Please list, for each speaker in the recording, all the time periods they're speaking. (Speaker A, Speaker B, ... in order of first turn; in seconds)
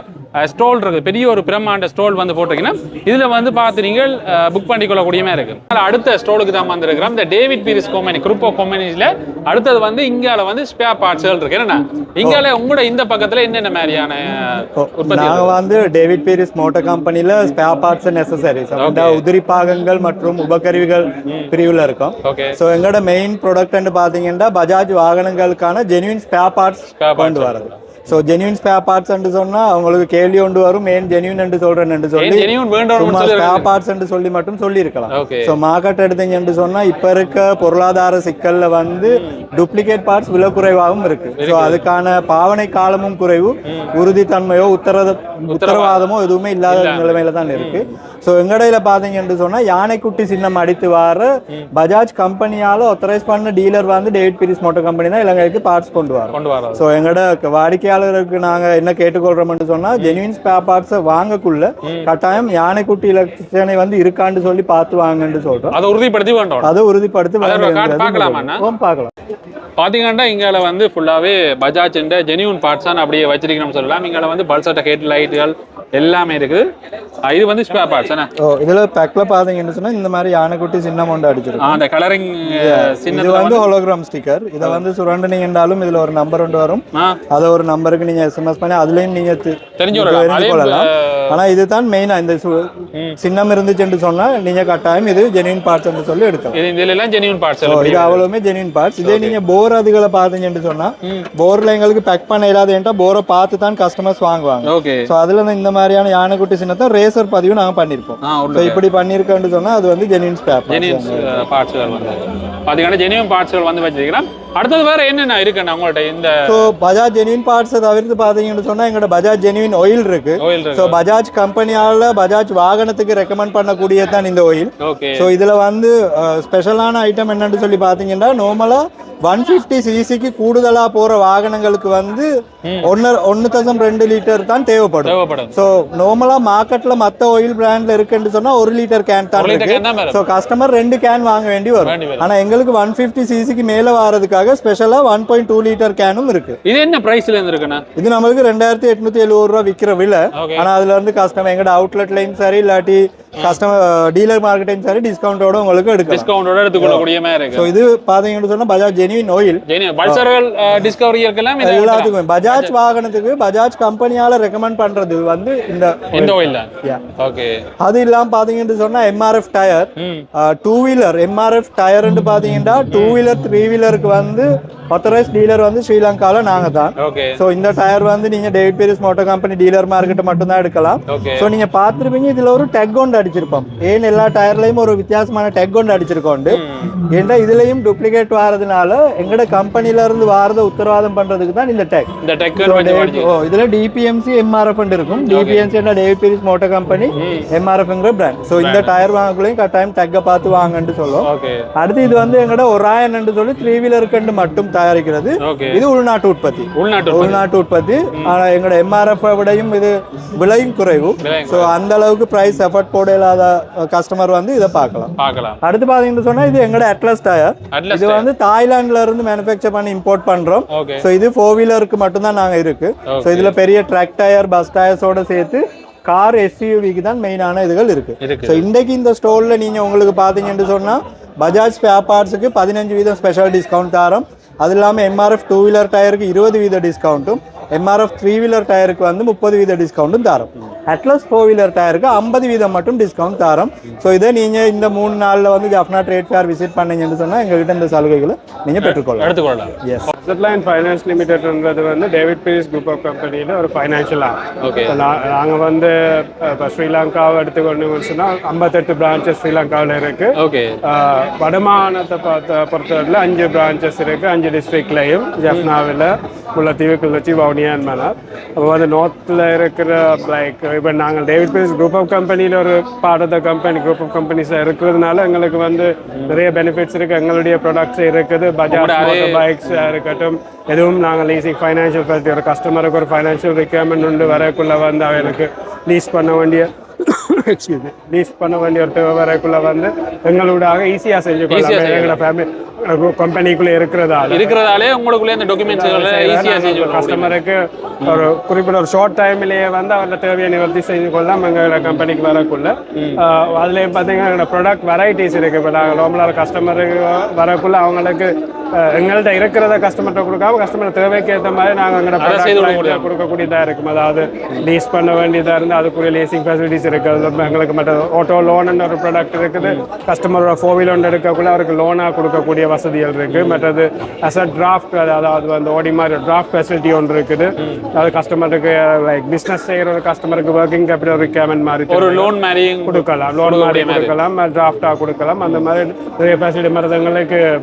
Speaker A: 0.4-15.5, 18.8-19.2, 22.2-22.6, 27.0-27.7, 32.2-33.7, 35.1-35.5, 39.1-39.4, 41.4-41.8, 43.7-43.9, 45.4-46.1, 46.7-47.9, 56.3-56.8, 65.7-66.7, 67.4-68.6, 69.8-76.6, 77.3-78.3, 81.6-83.7, 86.9-87.2, 89.8-91.4, 96.5-98.2, 99.0-99.3, 104.6-105.1, 108.2-108.8, 110.7-116.7, 120.4-121.0, 124.8-125.3, 132.6-132.9, 135.0-135.5, 139.3-140.2, 141.8-142.3, 146.6-147.8, 150.3-150.7, 156.1-157.7, 159.7-162.7, 166.1-167.6, 170.0-170.2, 172.9-173.2, 177.0-177.4, 181.1-181.5, 186.5-186.9, 192.2-193.3, 195.3-195.7, 197.2-197.5, 198.6-198.9, 201.2-201.7, 205.4-205.8, 206.8-207.4, 211.2-211.7, 215.2-215.6, 217.7-218.3, 220.7-221.1, 223.1-223.5, 228.2-228.7, 248.8-249.7, 254.6-255.0, 260.4-260.7, 276.1-276.4, 278.7-279.9, 284.2-284.5, 291.5-292.2, 294.3-297.4, 298.0-298.3, 301.8-302.1, 312.2-313.1, 323.3-323.7, 331.9-334.1
Speaker B: 14.8-65.7, 66.6-69.1, 78.4-81.8, 82.5-96.6, 97.6-111.3, 116.5-132.3, 132.8-146.6, 148.0-160.2, 161.6-167.0, 167.8-250.0
Speaker C: 250.2-254.4, 254.9-260.3, 260.9-294.6, 295.6-332.3, 332.8-337.4